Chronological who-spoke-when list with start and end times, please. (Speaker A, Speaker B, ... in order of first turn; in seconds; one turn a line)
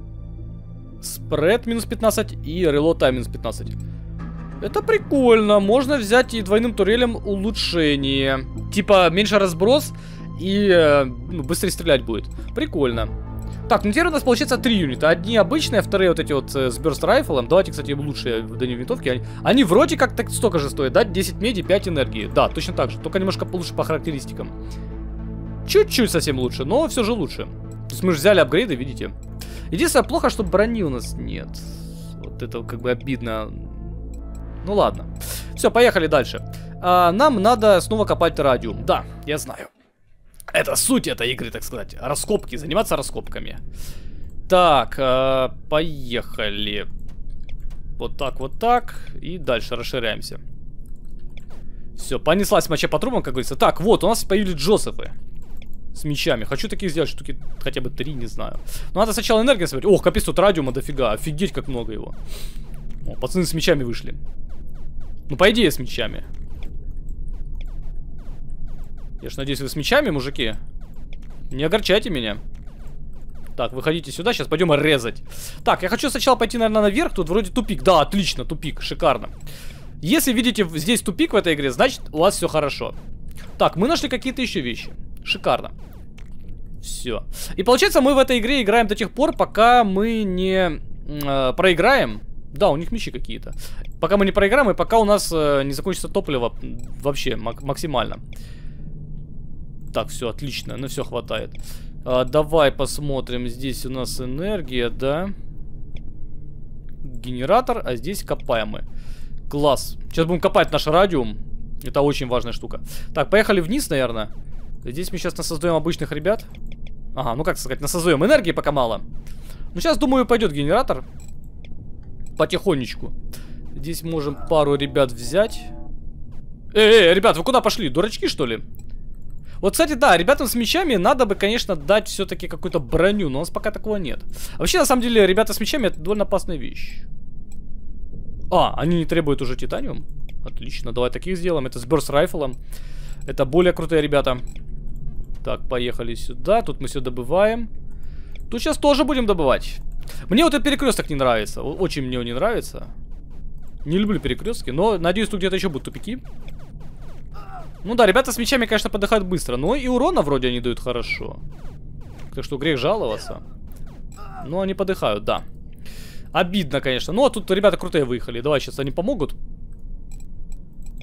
Speaker A: 1.0-3.7
Speaker A: 4.6-13.1
Speaker A: 13.7-24.5
Speaker A: 25.6-29.1
Speaker A: 29.7-33.8
Speaker A: 34.6-39.7
Speaker A: 40.5-43.6
Speaker A: 44.5-46.9
Speaker A: 48.0-50.4
Speaker A: 52.0-55.1
Speaker A: 55.9-62.2
Speaker A: 63.0-64.2
Speaker A: 65.3-66.2
Speaker A: 69.2-70.6
Speaker A: 71.5-72.4
Speaker A: 73.6-79.3
Speaker A: 80.0-82.9
Speaker A: 83.6-85.7
Speaker A: 86.8-98.2
Speaker A: 99.9-105.3
Speaker A: 107.0-108.8
Speaker A: 109.5-114.3
Speaker A: 114.8-116.5
Speaker A: 117.1-119.0
Speaker A: 119.7-121.0
Speaker A: 122.3-123.1
Speaker A: 123.7-125.7
Speaker A: 126.7-128.6
Speaker A: 129.6-137.1
Speaker A: 138.5-142.6
Speaker A: 143.2-144.4
Speaker A: 145.4-147.7
Speaker A: 148.5-152.9
Speaker A: 153.8-156.2
Speaker A: 157.8-161.4
Speaker A: 162.3-163.4
Speaker A: 164.4-165.4
Speaker A: 166.3-169.3